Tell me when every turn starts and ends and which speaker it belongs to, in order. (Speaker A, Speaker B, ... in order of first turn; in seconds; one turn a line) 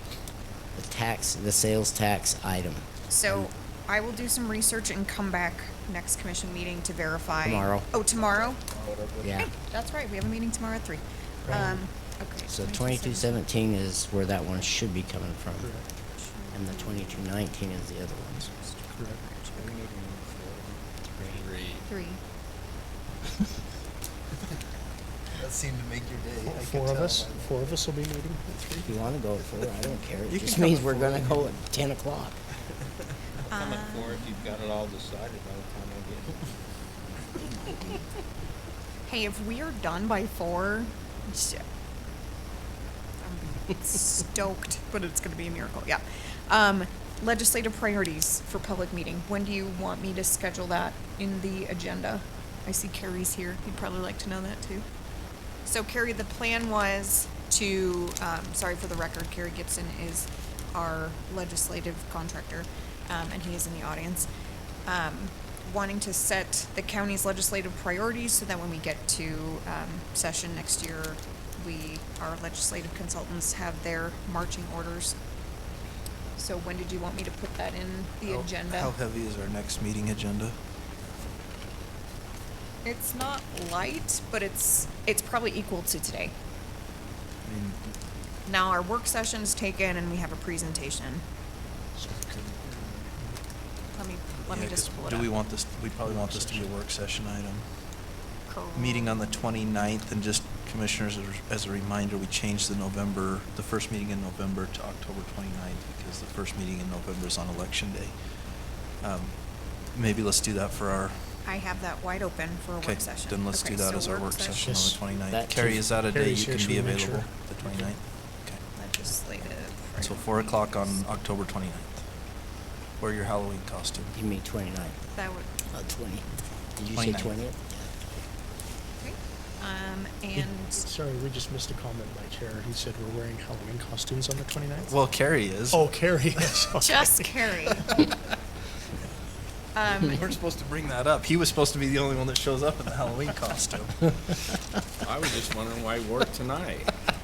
Speaker A: 0.8-3.5
Speaker B: 3.1-8.6
Speaker A: 7.4-7.9
Speaker C: 8.3-9.4
Speaker A: 9.2-9.5
Speaker B: 9.4-13.4
Speaker D: 11.4-11.8
Speaker A: 12.5-15.8
Speaker B: 16.1-17.3
Speaker A: 16.5-18.5
Speaker B: 18.5-19.8
Speaker D: 18.9-19.2
Speaker C: 19.6-21.9
Speaker A: 21.2-21.4
Speaker B: 21.9-22.2
Speaker E: 25.3-27.7
Speaker D: 26.4-28.6
Speaker E: 28.6-28.9
Speaker A: 28.8-32.4
Speaker E: 30.3-31.5
Speaker B: 33.5-34.3
Speaker C: 33.5-36.4
Speaker B: 39.0-41.6
Speaker B: 43.2-54.8
Speaker B: 55.6-64.3
Speaker B: 64.8-75.2
Speaker B: 76.4-78.9
Speaker E: 78.3-80.5
Speaker B: 82.8-86.3
Speaker E: 87.4-87.9
Speaker B: 88.5-91.2
Speaker D: 92.1-93.3
Speaker B: 93.9-95.3
Speaker E: 94.4-97.6
Speaker B: 98.5-99.2
Speaker E: 98.7-108.1
Speaker E: 109.0-109.3
Speaker E: 109.9-111.3
Speaker B: 111.4-114.7
Speaker E: 112.8-118.6
Speaker D: 114.5-115.0
Speaker A: 115.3-115.8
Speaker D: 116.1-117.9
Speaker B: 118.8-121.0
Speaker E: 120.0-122.0
Speaker E: 123.0-124.1
Speaker A: 124.1-125.0
Speaker B: 125.1-125.5
Speaker A: 125.7-128.0
Speaker E: 126.9-127.4
Speaker B: 129.0-130.8
Speaker D: 130.8-134.9
Speaker E: 134.8-135.8
Speaker D: 135.7-137.4
Speaker E: 136.4-136.7
Speaker B: 136.8-137.9
Speaker B: 139.8-140.2
Speaker E: 140.0-144.3
Speaker C: 145.0-146.9